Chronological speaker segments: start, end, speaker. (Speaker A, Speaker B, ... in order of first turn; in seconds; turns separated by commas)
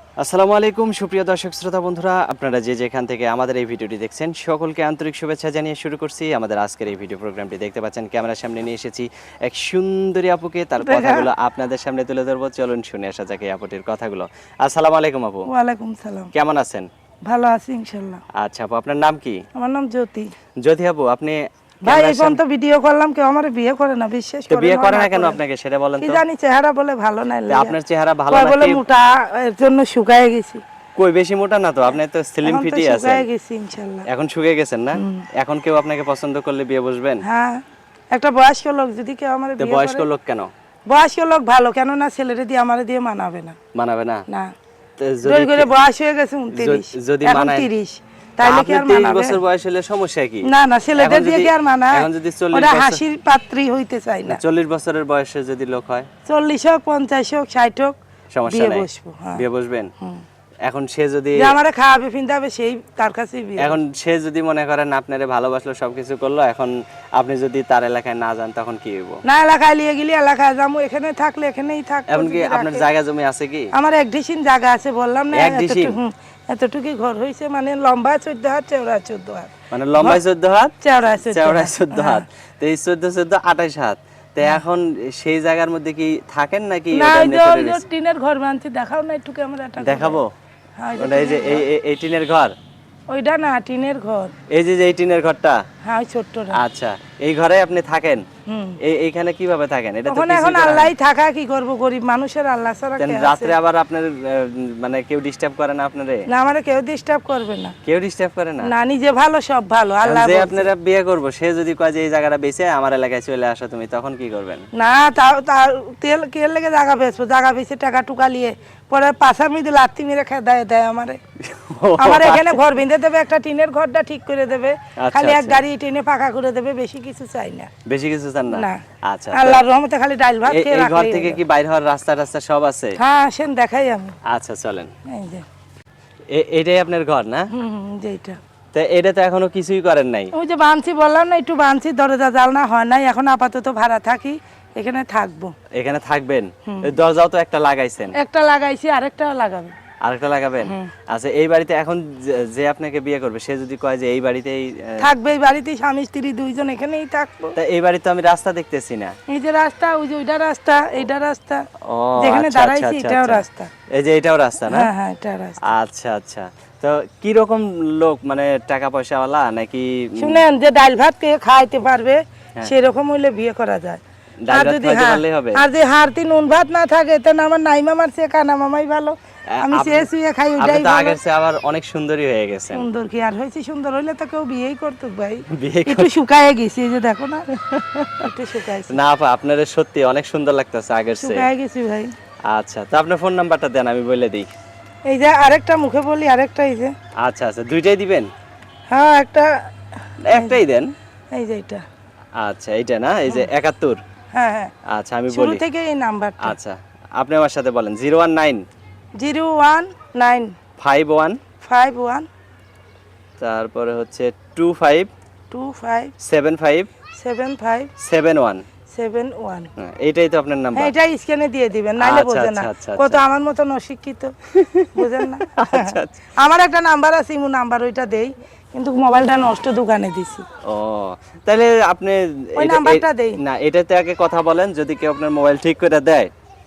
Speaker A: 0.2-15.5, Speaker B: 10.8-11.3, Speaker B: 15.5-16.3, Speaker A: 16.3-16.9, Speaker B: 17.2-18.2, Speaker A: 18.4-19.4, Speaker B: 19.5-20.3, Speaker A: 20.6-22.4, Speaker B: 21.8-25.4, Speaker A: 24.5-26.2, Speaker B: 26.0-27.8, Speaker A: 27.5-28.8, Speaker B: 28.3-30.6, Speaker A: 30.9-33.3, Speaker B: 32.4-34.1, Speaker A: 34.1-37.2, Speaker B: 34.9-35.2, Speaker B: 37.2-40.1, Speaker A: 39.6-40.5, Speaker B: 40.9-43.6, Speaker A: 43.7-44.2, Speaker A: 45.0-45.7, Speaker B: 45.2-49.4, Speaker A: 46.5-47.7, Speaker A: 48.4-53.0, Speaker B: 50.4-54.4, Speaker A: 54.3-56.1, Speaker B: 56.2-58.0, Speaker A: 58.3-59.9, Speaker B: 58.5-59.4, Speaker A: 60.6-61.6, Speaker B: 61.4-63.8, Speaker A: 63.6-69.2, Speaker B: 69.2-72.8, Speaker A: 72.1-73.7, Speaker B: 73.7-80.2, Speaker A: 75.3-76.0, Speaker A: 79.7-87.8, Speaker B: 80.8-82.2, Speaker B: 86.9-90.2, Speaker A: 89.8-90.3, Speaker B: 90.8-91.7, Speaker A: 91.0-92.5, Speaker B: 93.1-94.3, Speaker A: 94.5-95.6, Speaker B: 95.8-96.6, Speaker A: 96.5-98.2, Speaker B: 98.5-98.8, Speaker A: 98.8-100.9, Speaker B: 100.1-103.5, Speaker A: 103.0-106.2, Speaker B: 106.3-107.7, Speaker A: 107.8-108.7, Speaker B: 108.6-110.7, Speaker A: 110.0-114.7, Speaker B: 114.7-121.2, Speaker A: 121.4-122.6, Speaker B: 122.0-127.7, Speaker A: 125.0-125.6, Speaker A: 127.8-129.6, Speaker B: 128.5-131.4, Speaker A: 130.4-133.0, Speaker B: 133.0-134.1, Speaker A: 134.3-134.9, Speaker B: 135.1-135.4, Speaker A: 136.3-137.5, Speaker B: 137.5-138.4, Speaker A: 138.7-140.3, Speaker B: 140.3-145.5, Speaker A: 145.7-148.2, Speaker B: 146.7-146.9, Speaker B: 148.1-149.7, Speaker A: 150.0-155.1, Speaker B: 150.6-150.9, Speaker B: 155.0-157.6, Speaker A: 157.6-159.1, Speaker B: 159.3-161.7, Speaker A: 161.8-164.9, Speaker B: 162.2-163.7, Speaker B: 164.7-165.7, Speaker A: 165.7-170.4, Speaker B: 170.2-181.2, Speaker A: 174.4-175.6, Speaker A: 179.5-182.9, Speaker B: 182.7-187.5, Speaker A: 185.5-186.1, Speaker A: 187.5-188.3, Speaker B: 188.2-189.0, Speaker A: 188.9-191.5, Speaker B: 191.2-192.1, Speaker A: 192.5-194.5, Speaker B: 195.1-196.9, Speaker A: 197.2-198.3, Speaker B: 198.9-199.6, Speaker A: 200.2-200.9, Speaker B: 200.3-200.6, Speaker B: 201.3-201.8, Speaker A: 202.4-204.0, Speaker B: 204.3-204.7, Speaker A: 204.9-205.6, Speaker B: 205.3-206.6, Speaker A: 206.4-208.6, Speaker B: 209.2-210.6, Speaker A: 210.8-211.4, Speaker B: 211.6-212.3, Speaker A: 213.4-215.1, Speaker B: 215.5-216.1, Speaker A: 216.2-216.9, Speaker B: 217.2-217.9, Speaker A: 218.0-218.6, Speaker B: 218.9-219.7, Speaker A: 219.8-220.9, Speaker B: 220.7-224.3, Speaker A: 222.0-223.2, Speaker A: 224.5-226.2, Speaker B: 224.9-230.4, Speaker A: 230.7-236.3, Speaker B: 232.6-233.4